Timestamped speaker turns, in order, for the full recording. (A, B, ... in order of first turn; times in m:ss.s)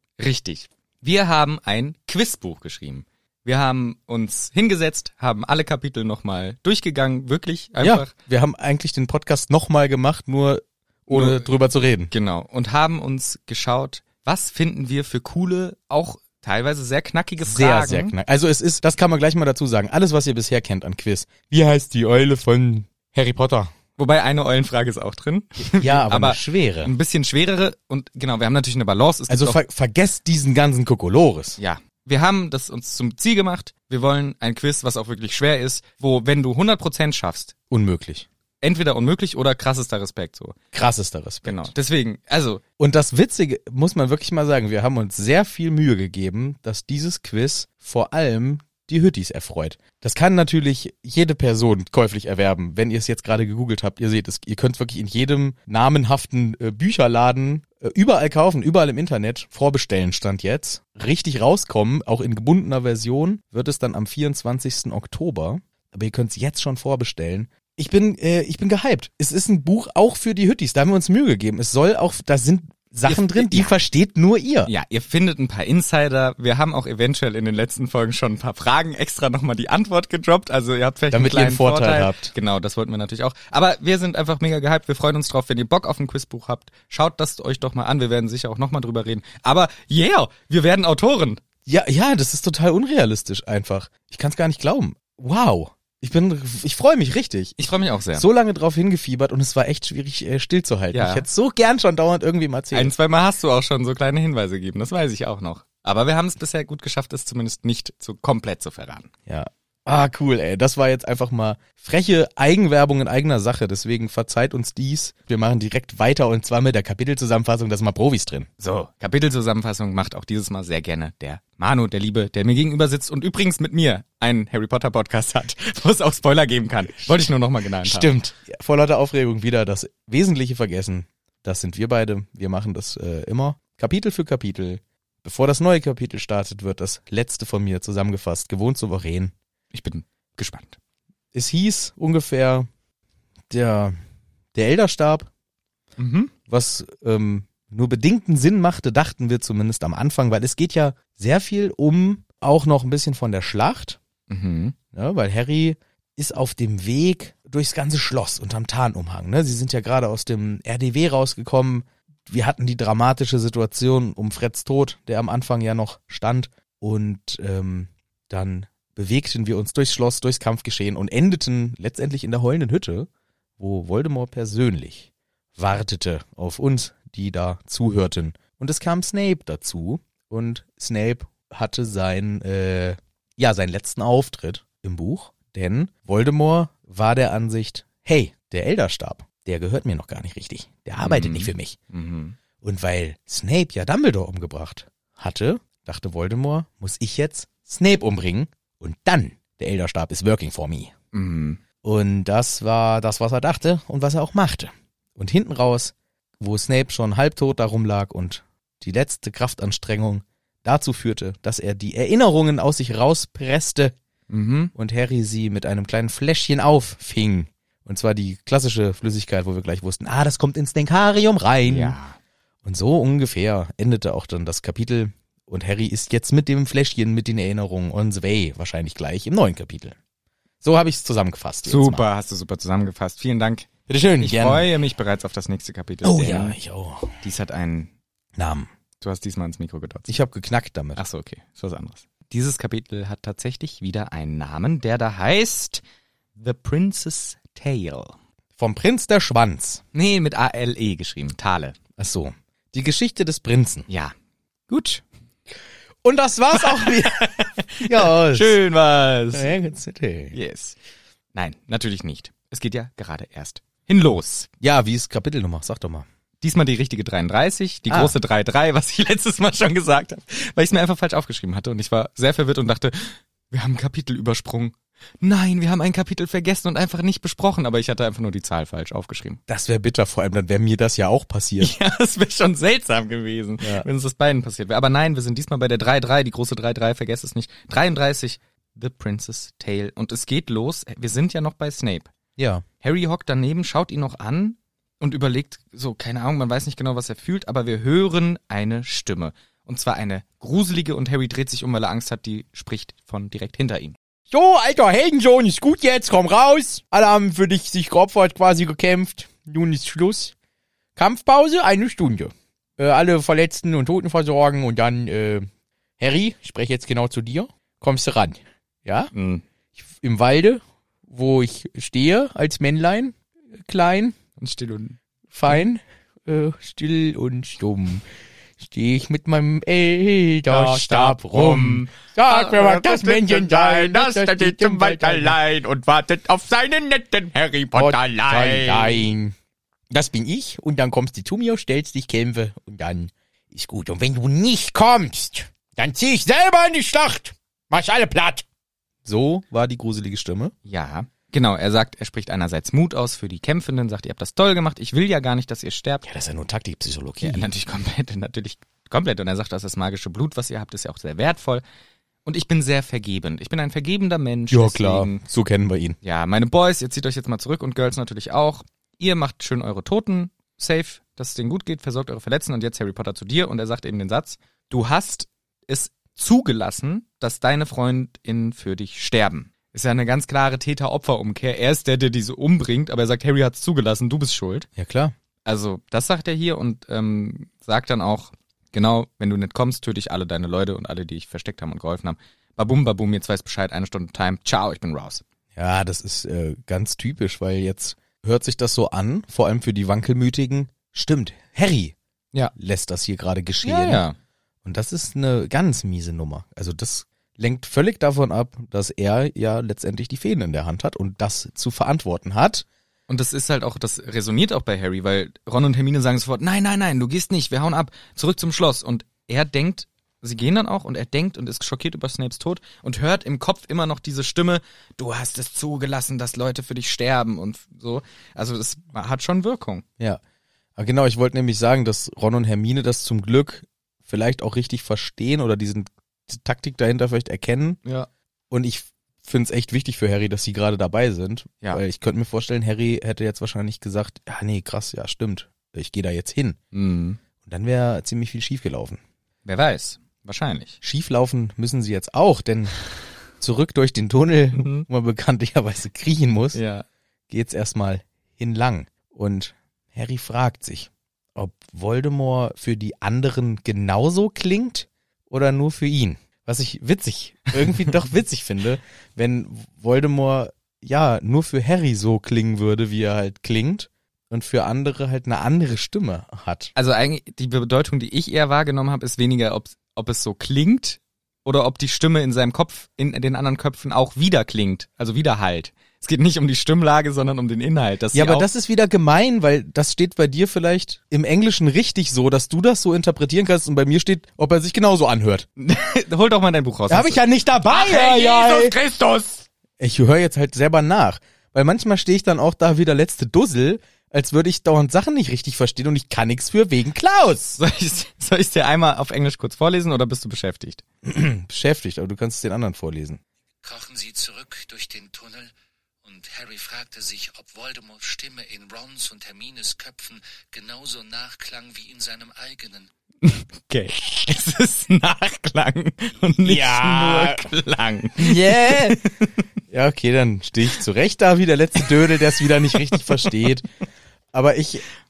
0:00.2-0:08.1 A
0:07.8-0:12.1 B
0:11.1-0:11.5 A
0:12.1-0:18.1 A
0:17.4-0:23.7 B
0:24.0-0:29.6 A
0:25.6-0:26.9 B
0:29.3-0:31.6 B
0:31.6-0:37.5 A
0:37.7-0:38.3 B
0:38.6-0:40.6 A
0:40.7-0:41.7 B
0:41.4-0:42.6 A
0:42.8-1:14.7 B
1:13.0-1:13.7 A
1:14.6-1:31.4 A
1:21.1-1:22.3 B
1:31.6-1:42.9 B
1:37.6-1:38.2 A
1:40.9-1:41.3 A
1:42.7-1:49.1 A
1:49.3-1:58.5 B
1:58.6-2:08.1 A
2:07.8-2:19.3 B
2:19.7-2:20.8 A
2:21.3-2:22.7 B
2:23.5-2:24.0 B
2:24.5-2:25.3 B
2:26.0-2:26.3 A
2:26.5-2:34.0 B
2:34.3-2:34.8 A
2:34.9-3:11.8 B
3:11.0-3:12.4 A
3:12.6-3:20.9 B
3:21.1-3:21.6 A
3:21.8-3:34.0 B
3:34.3-3:34.7 A
3:34.7-3:42.0 B
3:41.6-3:42.2 A
3:42.6-3:50.0 B
3:50.6-3:52.0 B
3:51.6-3:53.7 A
3:53.9-3:54.7 B
3:54.2-3:56.6 A
3:56.0-3:57.2 B
3:57.2-3:57.9 A
3:58.4-3:58.7 B
3:59.0-4:00.1 A
4:00.1-4:01.0 B
4:01.0-4:05.8 A
4:06.4-4:08.1 A
4:08.6-4:09.8 B
4:09.9-4:11.8 A
4:12.0-4:13.8 B
4:13.9-4:14.1 A
4:14.7-4:15.0 A
4:16.0-4:18.6 B
4:16.5-4:19.5 A
4:19.3-4:20.4 B
4:20.3-4:20.8 A
4:21.3-4:24.5 A
4:24.6-4:26.0 B
4:26.4-4:39.4 A
4:27.9-4:28.2 B
4:39.5-4:41.7 B
4:41.6-4:52.1 A
4:52.4-4:52.6 B
4:52.8-5:04.0 A
5:04.3-5:10.3 B
5:11.0-5:15.5 B
5:16.0-5:19.1 B
5:19.1-5:19.4 A
5:20.0-5:24.2 B
5:24.4-5:25.0 A
5:25.3-5:28.0 B
5:28.6-5:35.4 B
5:30.5-5:39.0 A
5:37.7-5:39.3 B
5:39.9-5:48.4 B
5:49.0-5:50.5 B
5:50.6-5:56.0 A
5:56.0-5:57.5 B
5:57.2-6:01.6 A
6:02.2-6:05.2 A
6:04.5-6:06.0 B
6:06.0-6:24.7 A
6:24.8-6:25.1 B
6:25.4-6:35.2 A
6:35.5-6:41.9 B
6:42.5-6:44.0 B
6:43.6-6:44.2 A
6:44.6-6:52.6 B
6:53.1-7:09.8 A
7:10.8-7:17.8 B
7:18.5-7:26.6 B
7:26.7-7:27.2 A
7:27.4-7:29.0 B
7:29.4-7:30.8 A
7:30.8-7:32.8 B
7:33.4-7:36.6 B
7:34.5-7:34.9 A
7:36.5-7:36.8 A
7:37.3-7:56.7 B
7:56.7-8:08.5 A
8:08.1-8:15.5 B
8:15.6-8:19.4 A
8:16.9-8:18.8 B
8:19.8-8:27.6 B
8:27.6-8:30.8 A
8:31.0-8:33.2 B
8:33.6-8:35.5 C
8:36.0-8:42.9 C
8:43.2-8:49.3 A
8:46.4-8:47.5 B
8:48.2-8:49.0 B
8:49.7-8:53.6 B
8:51.8-8:53.6 A
8:54.3-8:54.9 B